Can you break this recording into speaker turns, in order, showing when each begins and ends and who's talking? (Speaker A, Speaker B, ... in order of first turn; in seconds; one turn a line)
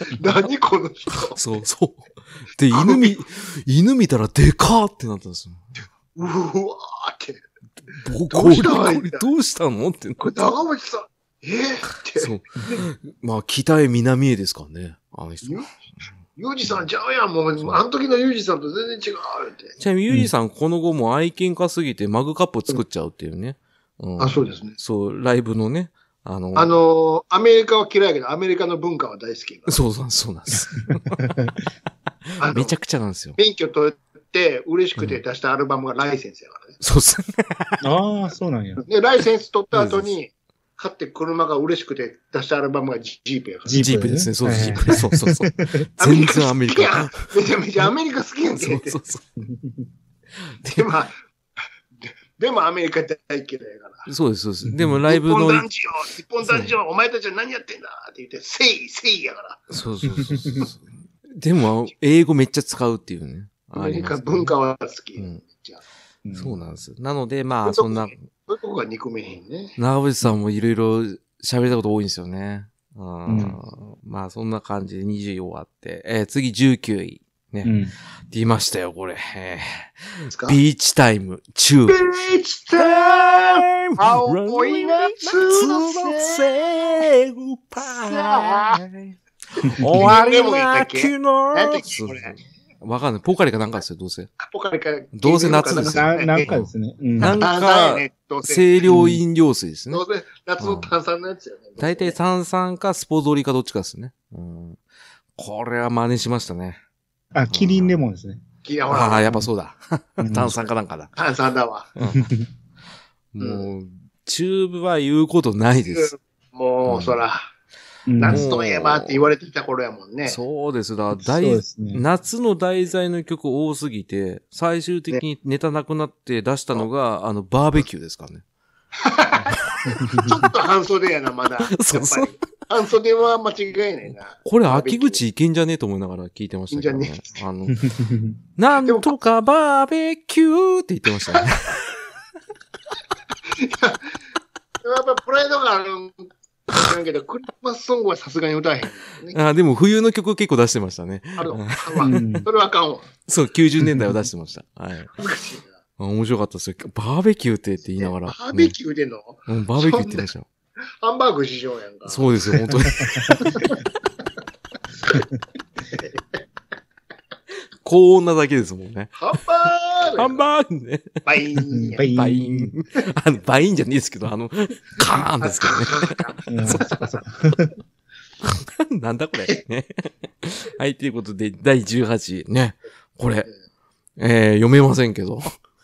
Speaker A: 0.1-1.4
Speaker B: 1.2-5.6
Speaker A: 2.7-3.1
Speaker A: 6.2-7.4
Speaker B: 7.9-10.4
Speaker A: 8.3-9.3
Speaker A: 10.2-12.8
Speaker B: 12.2-15.6
Speaker A: 16.4-19.8
Speaker B: 19.8-26.8
Speaker A: 24.2-24.8
Speaker A: 26.6-29.8
Speaker B: 29.7-31.2
Speaker C: 31.2-31.5
Speaker B: 32.4-33.4
Speaker A: 32.4-32.8
Speaker A: 33.4-36.8
Speaker B: 36.8-37.8
Speaker C: 37.8-38.8
Speaker A: 38.8-43.9
Speaker B: 39.7-40.1
Speaker C: 43.7-45.9
Speaker B: 43.8-47.3
Speaker A: 46.0-49.0
Speaker B: 48.6-49.2
Speaker C: 49.4-49.8
Speaker B: 50.6-50.9
Speaker A: 50.7-51.1
Speaker A: 52.0-54.1
Speaker B: 54.1-55.7
Speaker C: 54.7-55.0
Speaker A: 55.1-59.6
Speaker B: 56.4-56.8
Speaker B: 59.7-64.5
Speaker A: 63.7-65.8
Speaker B: 65.2-65.4
Speaker C: 66.2-66.6
Speaker B: 66.3-68.2
Speaker A: 67.6-69.8
Speaker B: 69.8-77.7
Speaker C: 73.3-73.6
Speaker C: 77.6-77.9
Speaker B: 78.3-82.0
Speaker A: 80.3-80.6
Speaker A: 81.9-87.0
Speaker B: 82.8-94.3
Speaker A: 87.8-88.8
Speaker C: 89.7-90.1
Speaker A: 89.9-92.4
Speaker A: 94.4-96.5
Speaker B: 95.1-100.0
Speaker C: 95.8-97.4
Speaker A: 97.2-98.9
Speaker C: 98.9-99.2
Speaker A: 99.9-102.2
Speaker B: 100.6-100.9
Speaker B: 101.8-104.8
Speaker B: 105.4-106.8
Speaker C: 107.3-108.4
Speaker B: 107.5-108.0
Speaker A: 108.6-109.4
Speaker B: 108.9-111.1
Speaker C: 110.2-110.6
Speaker A: 111.2-111.9
Speaker B: 112.0-112.3
Speaker C: 112.1-112.5
Speaker B: 113.3-116.1
Speaker A: 113.4-113.7
Speaker A: 115.9-117.5
Speaker B: 116.8-117.2
Speaker C: 118.1-118.5
Speaker A: 118.2-120.4
Speaker B: 118.3-119.2
Speaker B: 120.2-128.4
Speaker C: 121.1-122.0
Speaker A: 129.0-135.2
Speaker C: 129.9-130.4
Speaker B: 130.1-130.4
Speaker B: 131.6-132.3
Speaker B: 134.4-137.9
Speaker A: 136.7-137.2
Speaker C: 137.7-138.4
Speaker B: 138.6-141.9
Speaker A: 138.8-139.2
Speaker A: 143.5-144.2
Speaker A: 144.8-149.4
Speaker B: 149.3-152.2
Speaker A: 151.4-153.1
Speaker C: 152.0-152.5
Speaker B: 153.3-155.1
Speaker A: 155.1-155.8
Speaker B: 156.0-158.8
Speaker A: 158.0-160.3
Speaker B: 159.5-160.5
Speaker A: 161.0-162.5
Speaker B: 162.1-163.7
Speaker C: 163.1-163.4
Speaker A: 163.3-163.8
Speaker A: 165.9-166.4
Speaker B: 167.8-169.2
Speaker A: 169.2-170.4
Speaker B: 170.2-171.2
Speaker A: 171.2-172.1
Speaker C: 171.7-172.8
Speaker B: 172.1-176.8
Speaker A: 175.4-177.0
Speaker C: 176.5-177.7
Speaker B: 178.4-183.5
Speaker B: 184.2-185.5